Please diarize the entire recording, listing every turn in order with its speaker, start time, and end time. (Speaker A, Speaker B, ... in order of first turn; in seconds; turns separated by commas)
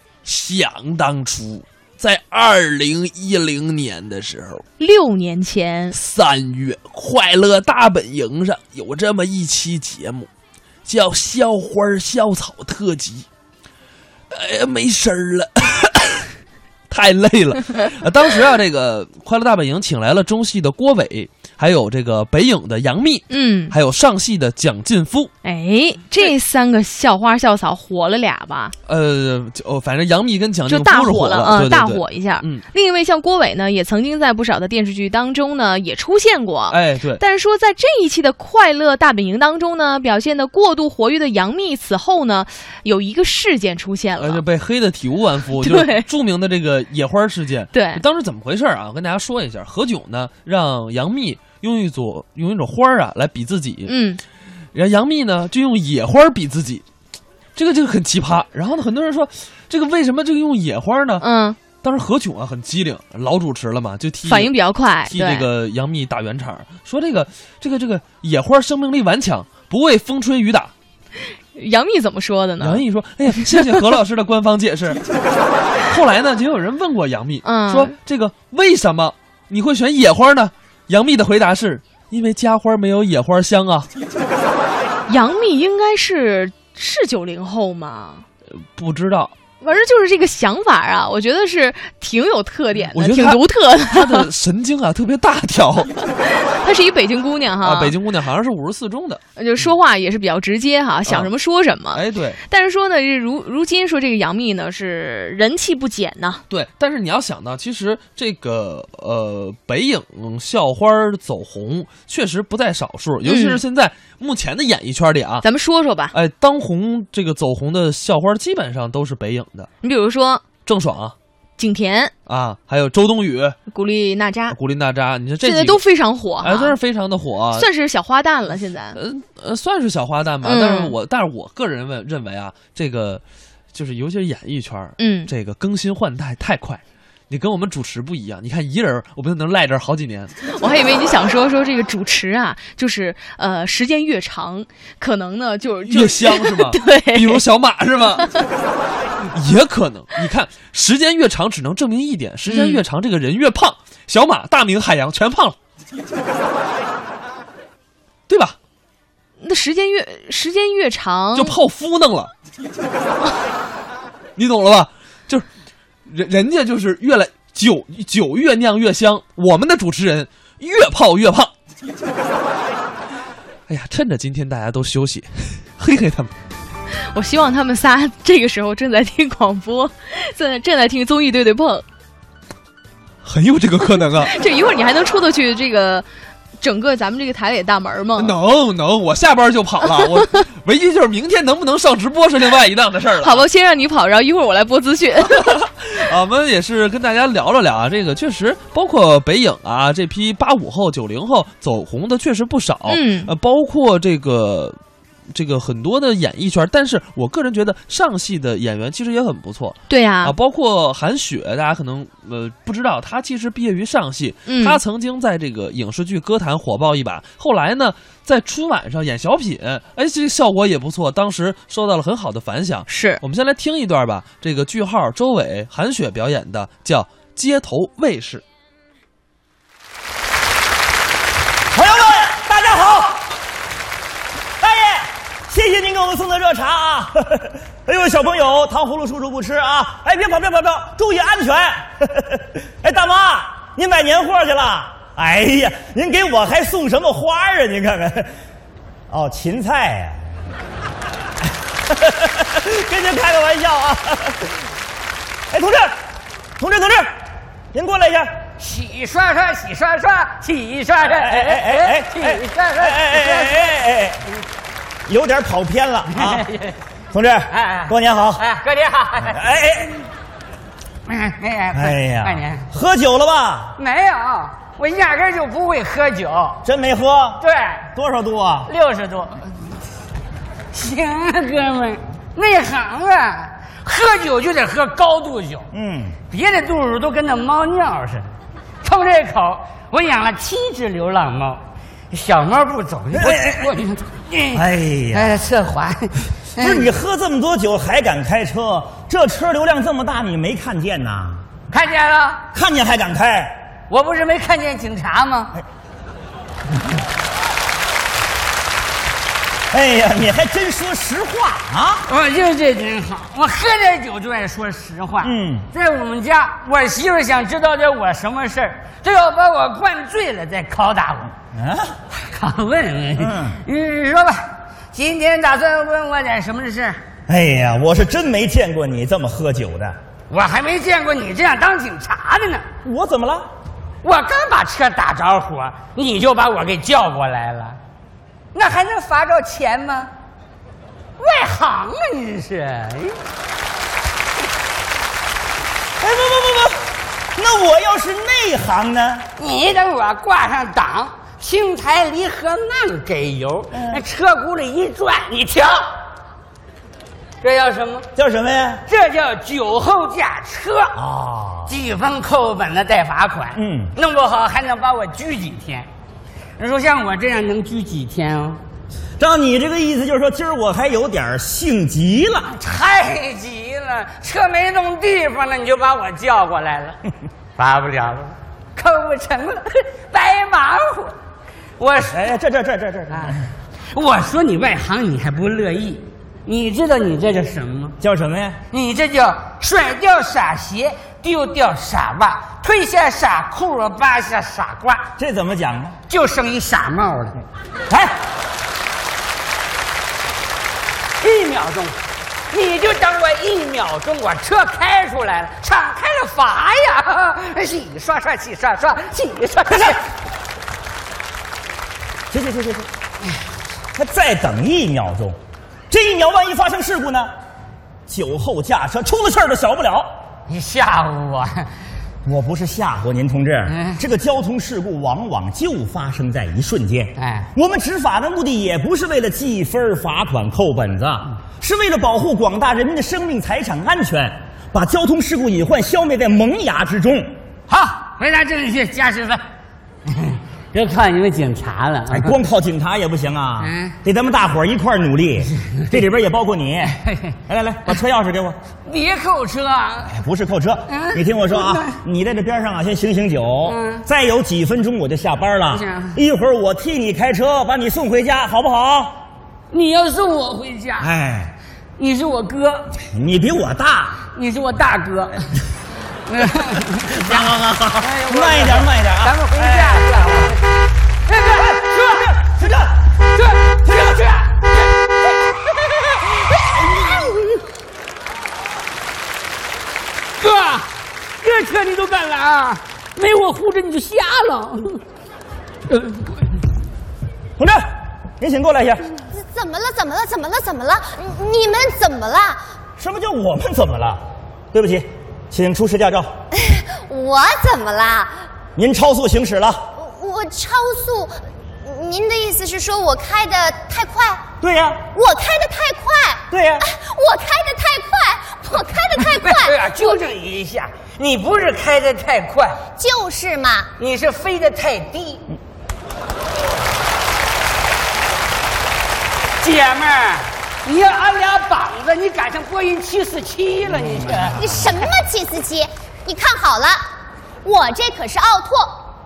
Speaker A: 0.2-4.6, Speaker B: 4.8-6.0, Speaker A: 5.9-10.3, Speaker A: 10.8-13.3, Speaker A: 14.3-16.3, Speaker A: 16.9-25.3, Speaker B: 23.3-23.8, Speaker B: 25.4-28.7, Speaker A: 28.9-32.6, Speaker B: 30.7-44.4, Speaker A: 36.7-37.2, Speaker A: 44.2-53.9, Speaker B: 45.6-46.1, Speaker B: 47.7-48.0, Speaker B: 53.9-54.2, Speaker A: 54.7-56.8, Speaker A: 57.5-61.2, Speaker B: 61.2-61.6, Speaker A: 61.8-70.7, Speaker B: 64.2-65.5, Speaker B: 71.5-72.8, Speaker A: 72.6-75.0, Speaker A: 75.8-83.9, Speaker B: 77.4-77.9, Speaker B: 85.1-88.2, Speaker A: 88.5-89.3, Speaker B: 89.6-94.3, Speaker A: 92.9-95.9, Speaker B: 96.2-98.0, Speaker A: 97.6-99.7, Speaker B: 99.4-106.4, Speaker A: 101.1-101.3, Speaker A: 101.9-102.4, Speaker A: 106.5-115.4, Speaker B: 113.2-113.6, Speaker B: 115.4-116.1, Speaker A: 116.1-119.7, Speaker B: 119.8-120.4, Speaker A: 120.7-121.1, Speaker B: 121.6-122.1, Speaker A: 122.3-123.6, Speaker B: 123.7-124.6, Speaker A: 124.5-125.8, Speaker B: 125.4-126.8, Speaker A: 126.4-127.7, Speaker B: 127.5-129.0, Speaker A: 128.9-133.2, Speaker B: 130.4-130.9, Speaker A: 133.7-140.3, Speaker B: 135.0-135.3, Speaker B: 140.4-147.4, Speaker A: 145.9-148.4, Speaker A: 149.3-155.6, Speaker B: 152.4-152.8, Speaker A: 158.3-158.6, Speaker B: 159.4-161.5, Speaker A: 161.3-162.3, Speaker A: 164.3-165.5, Speaker A: 166.0-171.5, Speaker A: 173.7-176.3, Speaker B: 177.0-181.8, Speaker A: 183.2-184.3, Speaker B: 184.2-186.1, Speaker B: 186.6-188.3, Speaker A: 188.2-193.4, Speaker B: 193.2-195.6, Speaker A: 195.4-204.8, Speaker B: 202.9-203.3, Speaker A: 205.3-228.4, Speaker B: 209.9-210.3, Speaker B: 214.4-214.8, Speaker B: 222.9-223.2, Speaker C: 231.7-233.2, Speaker C: 234.6-248.3, Speaker C: 249.1-250.2, Speaker C: 251.9-254.5, Speaker C: 255.5-256.0, Speaker C: 256.6-257.1, Speaker C: 257.7-258.3, Speaker D: 258.6-263.6, Speaker C: 261.2-264.2, Speaker C: 265.1-266.4, Speaker D: 266.2-266.8, Speaker C: 267.1-268.4, Speaker D: 267.5-269.4, Speaker C: 269.3-270.1, Speaker D: 271.1-272.6, Speaker C: 271.7-273.8, Speaker D: 273.8-276.6, Speaker C: 276.6-277.4, Speaker D: 277.4-277.9, Speaker C: 277.9-278.7, Speaker D: 278.7-279.7, Speaker D: 280.7-285.7, Speaker C: 285.7-286.2, Speaker D: 286.3-288.3, Speaker D: 288.8-296.8, Speaker C: 293.1-293.7, Speaker C: 294.5-295.3, Speaker C: 296.6-301.4, Speaker D: 301.7-302.4, Speaker C: 302.5-303.6, Speaker D: 303.9-305.6, Speaker C: 309.7-312.0, Speaker D: 312.1-321.3, Speaker C: 315.2-315.7, Speaker C: 321.5-322.0, Speaker D: 322.1-327.0, Speaker C: 323.2-323.6, Speaker C: 327.3-329.9, Speaker D: 330.3-332.7, Speaker C: 332.8-333.5, Speaker D: 334.0-337.8, Speaker D: 338.5-340.1, Speaker D: 341.2-343.2, Speaker C: 346.0-346.8, Speaker C: 347.3-349.3, Speaker D: 349.4-356.0, Speaker C: 353.7-354.0, Speaker D: 357.4-358.1, Speaker C: 358.1-358.8, Speaker D: 358.9-360.9, Speaker C: 360.9-361.7, Speaker D: 361.6-365.9, Speaker C: 363.6-363.9, Speaker D: 366.6-368.6, Speaker C: 369.2-372.5, Speaker D: 372.5-377.0, Speaker D: 377.6-381.2, Speaker D: 381.8-382.2, Speaker C: 382.1-383.4, Speaker D: 383.1-383.4, Speaker D: 383.9-387.9, Speaker C: 388.0-388.6, Speaker D: 388.7-395.1, Speaker C: 395.2-396.0, Speaker D: 396.1-397.4, Speaker C: 397.9-398.1, Speaker D: 401.2-402.0, Speaker D: 402.5-410.0, Speaker C: 412.3-412.9, Speaker C: 413.9-415.4, Speaker C: 415.9-417.3, Speaker C: 418.1-420.1, Speaker D: 420.5-421.7, Speaker C: 422.2-437.3, Speaker D: 423.7-424.0, Speaker D: 427.2-427.5, Speaker D: 437.7-439.4, Speaker D: 440.0-442.3, Speaker C: 442.1-447.0, Speaker D: 443.6-443.9, Speaker C: 447.5-448.6, Speaker D: 448.8-450.1, Speaker C: 450.1-459.1, Speaker D: 450.9-451.9, Speaker D: 453.6-454.0, Speaker D: 455.7-456.2, Speaker D: 459.7-461.1, Speaker C: 461.0-461.5, Speaker D: 462.0-462.9, Speaker C: 463.1-464.2, Speaker D: 464.3-465.5, Speaker D: 466.2-470.6, Speaker C: 467.2-470.3, Speaker D: 471.2-472.3, Speaker C: 471.6-472.9, Speaker D: 473.3-475.3, Speaker D: 475.9-477.6, Speaker D: 480.4-485.0, Speaker C: 487.6-487.8, Speaker C: 488.4-489.1, Speaker E: 489.3-492.6, Speaker C: 493.0-496.3, Speaker E: 496.6-498.4, Speaker C: 498.8-499.8, Speaker E: 499.9-504.4, Speaker C: 504.6-505.0, Speaker E: 505.1-510.2, Speaker C: 506.5-506.8, Speaker D: 509.2-512.8, Speaker E: 513.0-513.9, Speaker D: 514.0-515.5, Speaker D: 519.6-524.6, Speaker E: 524.5-527.0, Speaker E: 527.6-529.0